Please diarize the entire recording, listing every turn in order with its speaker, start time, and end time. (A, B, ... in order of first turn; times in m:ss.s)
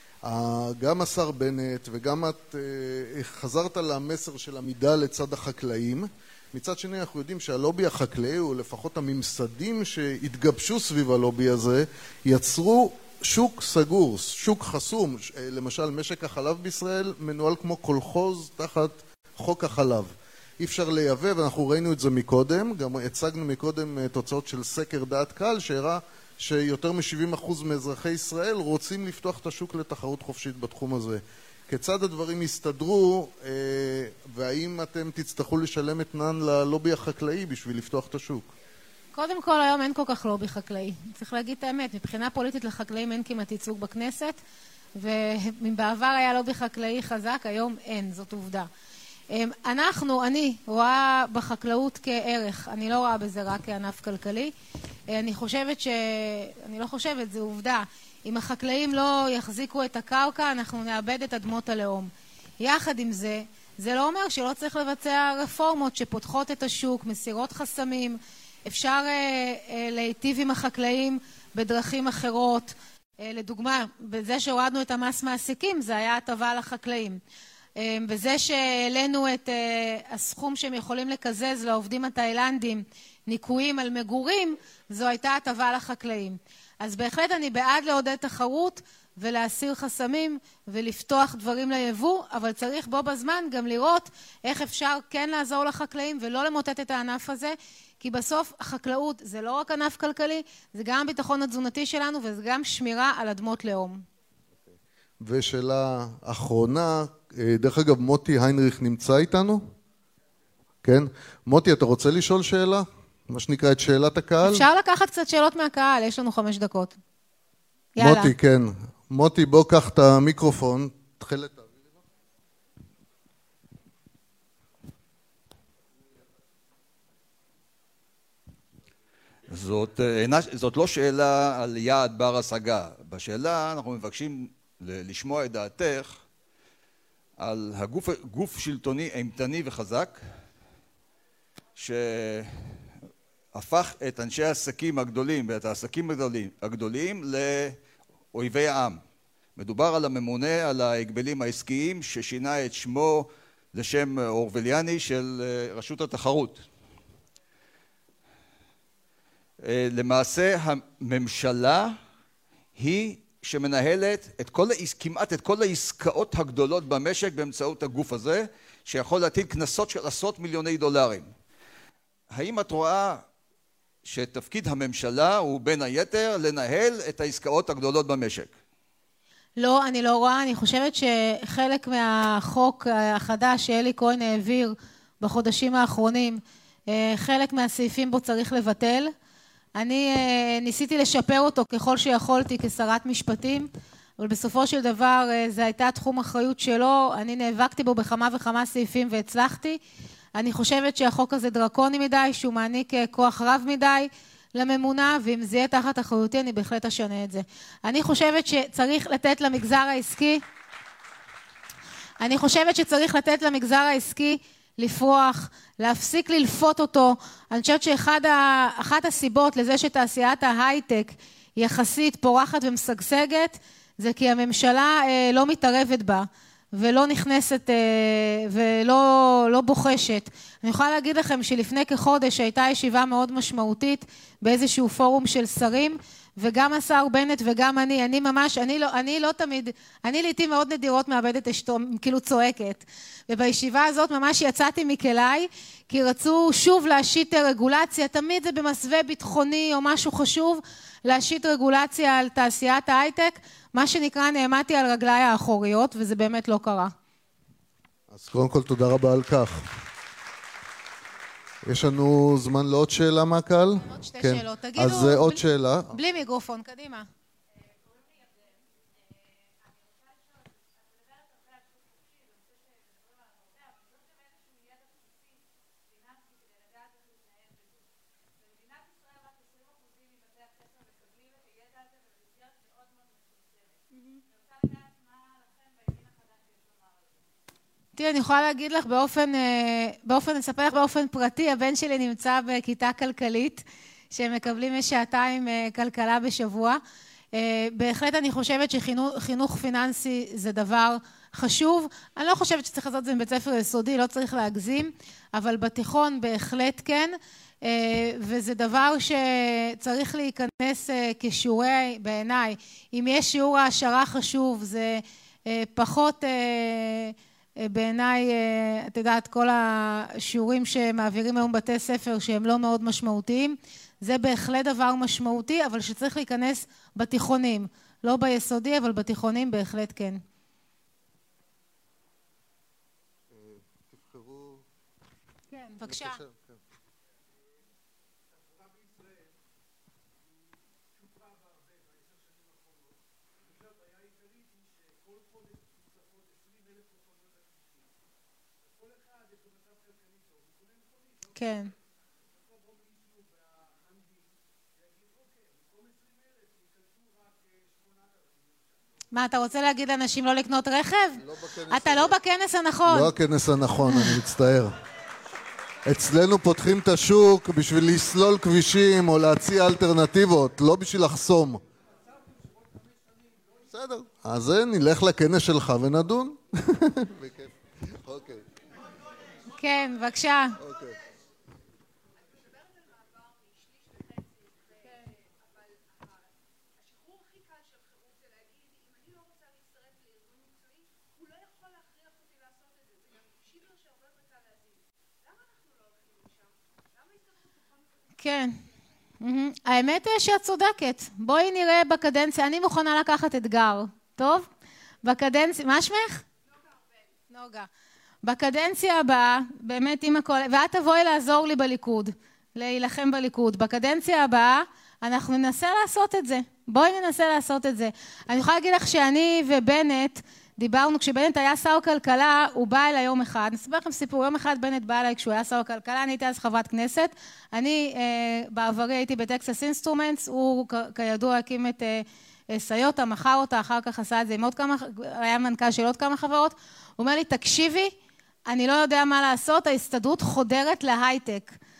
0:00.2-0:38.5 A
0:39.1-0:44.4 B
0:44.9-0:48.7 B
0:49.3-0:54.5 B
0:55.1-1:17.2 B
1:17.8-1:44.0 B
1:45.2-1:49.6 A
1:50.8-1:54.6 A
1:54.4-1:57.0 B
1:58.0-1:58.3 B
1:58.0-2:01.9 A
2:09.5-2:16.2 C
2:17.4-2:20.2 C
2:21.8-2:22.9 C
2:23.5-2:27.8 C
2:28.3-2:29.0 C
2:29.6-2:36.6 C
2:39.6-2:42.0 C
2:42.8-2:51.3 C
2:52.3-2:53.2 C
2:54.0-2:58.5 C
2:59.6-3:09.1 B
3:09.7-3:19.8 B
3:20.3-3:30.4 B
3:32.2-4:16.9 B
4:18.1-4:19.7 A
4:21.6-4:26.0 A
4:23.8-4:27.1 B
4:48.0-4:56.8 B
4:57.3-5:30.2 B
5:33.3-5:34.6 A
5:35.5-5:36.2 B
5:35.8-5:36.6 A
5:51.2-5:51.7 B
5:59.1-6:03.1 B
6:01.2-6:02.2 A
6:02.9-6:04.8 A
6:03.8-6:04.1 B
6:05.8-6:11.6 A
6:13.7-6:18.5 A
6:19.6-6:20.6 B
6:20.6-6:21.0 A
6:38.2-6:38.6 B
6:39.2-6:44.5 B
6:45.0-6:46.2 B
6:47.3-6:47.7 B
6:48.2-7:17.9 B
7:18.5-7:21.6 B